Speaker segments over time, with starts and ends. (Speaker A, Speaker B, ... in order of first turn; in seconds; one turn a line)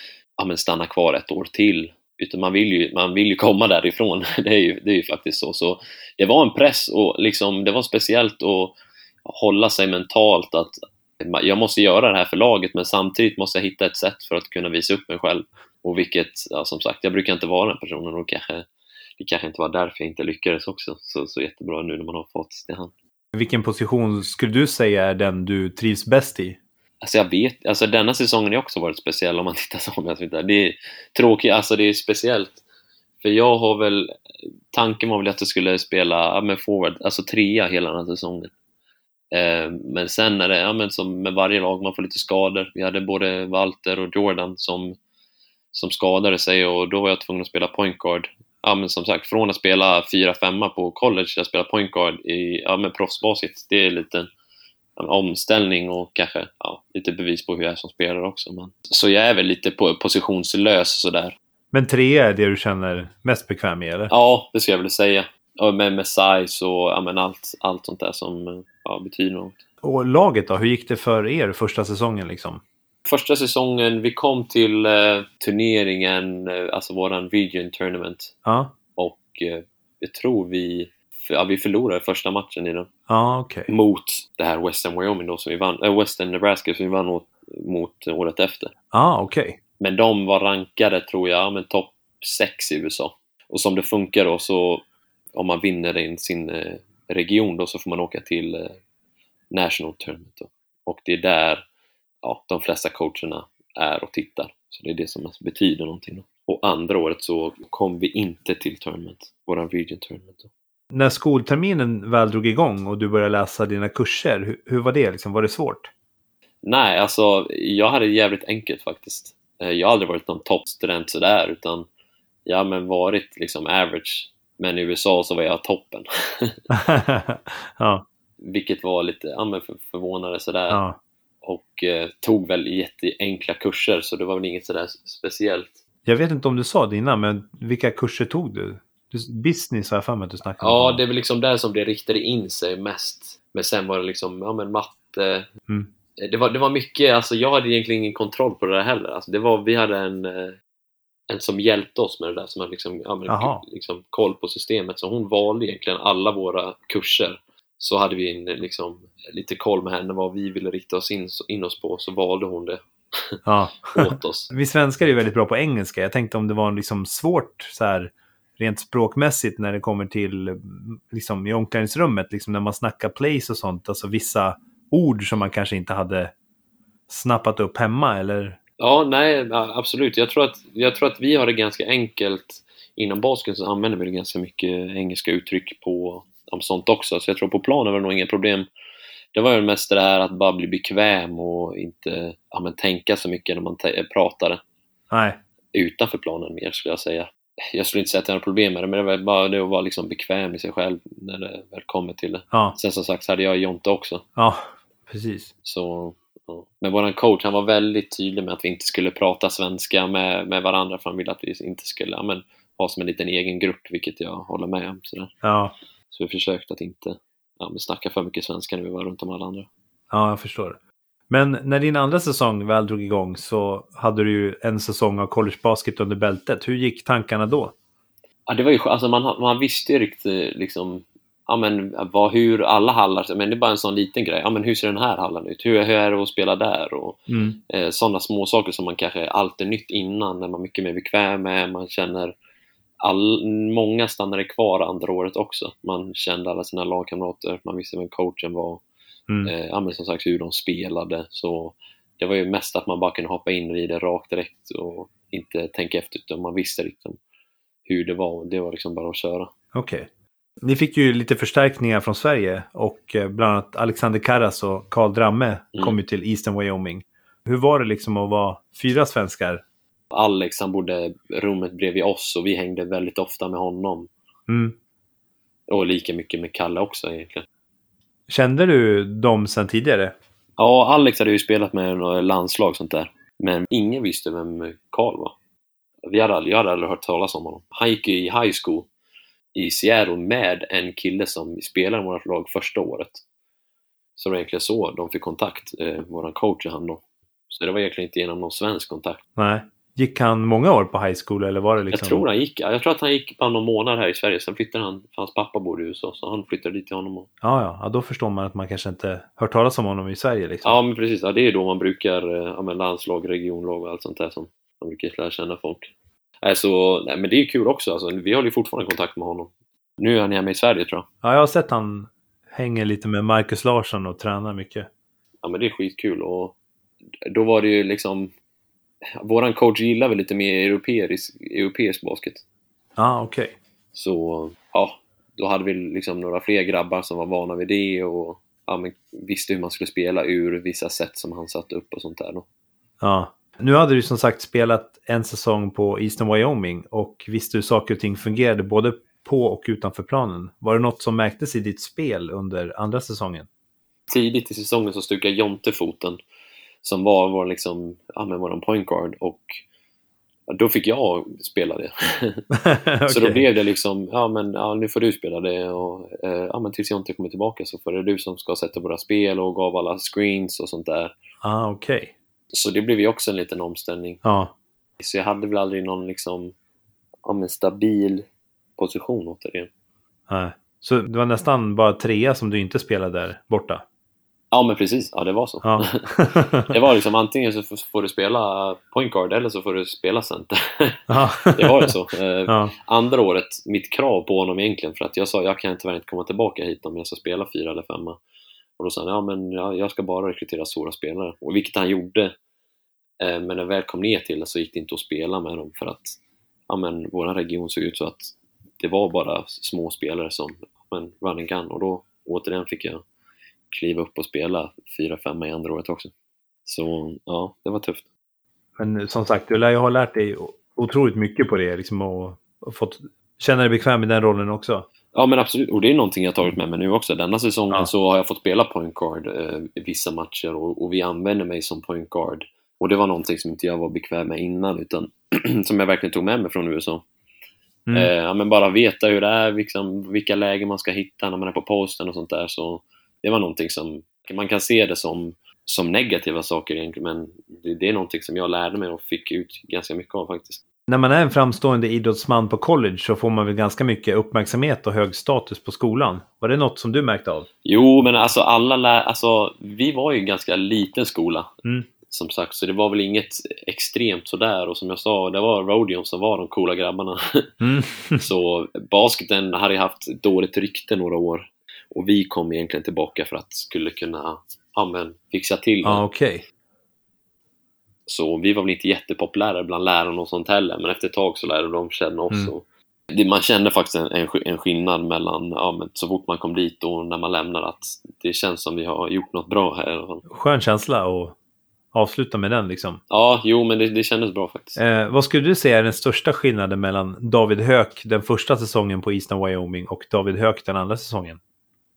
Speaker A: 0.4-18.7
Speaker A: 19.2-22.9
Speaker B: 23.3-26.6
Speaker A: 27.0-32.6
Speaker A: 33.2-34.1
Speaker A: 34.7-38.5
Speaker A: 39.3-45.0
Speaker A: 45.7-54.3
Speaker A: 55.0-61.4
Speaker B: 61.7-64.1
Speaker A: 64.1-69.6
Speaker B: 69.8-72.6
Speaker A: 73.0-78.3
Speaker B: 78.5-78.7
Speaker A: 78.9-82.9
Speaker B: 83.1-83.7
Speaker A: 83.7-88.7
Speaker B: 88.9-89.6
Speaker A: 89.8-98.8
Speaker A: 99.5-101.6
Speaker A: 102.2-110.5
Speaker B: 110.9-115.9
Speaker A: 116.6-121.8
Speaker A: 122.5-126.6
Speaker B: 126.7-128.0
Speaker A: 128.4-130.8
Speaker B: 130.7-131.0
Speaker A: 131.4-135.8
Speaker B: 136.1-141.0
Speaker A: 140.6-145.4
Speaker A: 146.2-150.6
Speaker A: 151.3-163.4
Speaker B: 153.3-153.6
Speaker B: 163.4-176.3
Speaker A: 163.9-164.5
Speaker B: 177.1-178.6
Speaker A: 178.8-188.7
Speaker A: 189.3-194.6
Speaker B: 195.1-195.4
Speaker A: 195.7-204.2
Speaker B: 202.5-202.8
Speaker B: 204.4-205.5
Speaker A: 205.6-215.3
Speaker B: 215.4-215.7
Speaker A: 216.1-219.7
Speaker B: 220.1-220.8
Speaker B: 221.3-227.7
Speaker A: 228.5-242.3
Speaker B: 237.3-237.6
Speaker A: 243.0-248.8
Speaker A: 249.4-257.2
Speaker A: 257.9-259.5
Speaker B: 259.7-260.1
Speaker B: 260.6-269.6
Speaker A: 270.1-274.1
Speaker B: 274.5-274.8
Speaker A: 275.7-277.4
Speaker B: 278.3-280.1
Speaker A: 280.6-285.3
Speaker A: 286.1-288.9
Speaker A: 289.5-293.2
Speaker A: 294.2-299.2
Speaker B: 299.4-302.2
Speaker A: 301.9-307.3
Speaker B: 307.4-310.8
Speaker A: 310.6-315.9
Speaker A: 316.4-321.1
Speaker B: 321.2-324.9
Speaker A: 325.4-326.6
Speaker A: 327.2-328.3
Speaker A: 329.2-332.4
Speaker B: 333.0-333.5
Speaker A: 333.9-342.4
Speaker B: 343.0-353.5
Speaker A: 354.1-356.2
Speaker A: 356.8-359.6
Speaker A: 360.5-362.4
Speaker B: 362.5-363.4
Speaker A: 363.1-371.1
Speaker B: 371.4-372.1
Speaker A: 372.5-374.2
Speaker B: 374.2-374.5
Speaker A: 375.0-376.5
Speaker A: 377.2-378.2
Speaker A: 378.8-379.7
Speaker B: 380.3-383.8
Speaker A: 384.5-398.2
Speaker B: 385.6-386.7
Speaker B: 391.1-391.9
Speaker B: 392.5-392.7
Speaker A: 398.8-402.3
Speaker A: 403.2-406.2
Speaker A: 406.7-413.0
Speaker A: 413.7-416.1
Speaker A: 416.6-418.0
Speaker B: 418.8-424.9
Speaker A: 425.1-437.0
Speaker A: 437.9-450.6
Speaker B: 450.9-457.5
Speaker A: 457.6-461.5
Speaker A: 462.1-467.5
Speaker B: 467.6-468.2
Speaker A: 468.2-476.0
Speaker B: 475.8-476.4
Speaker A: 478.1-490.2
Speaker B: 490.3-491.4
Speaker B: 491.9-493.0
Speaker A: 493.1-494.8
Speaker B: 494.8-501.4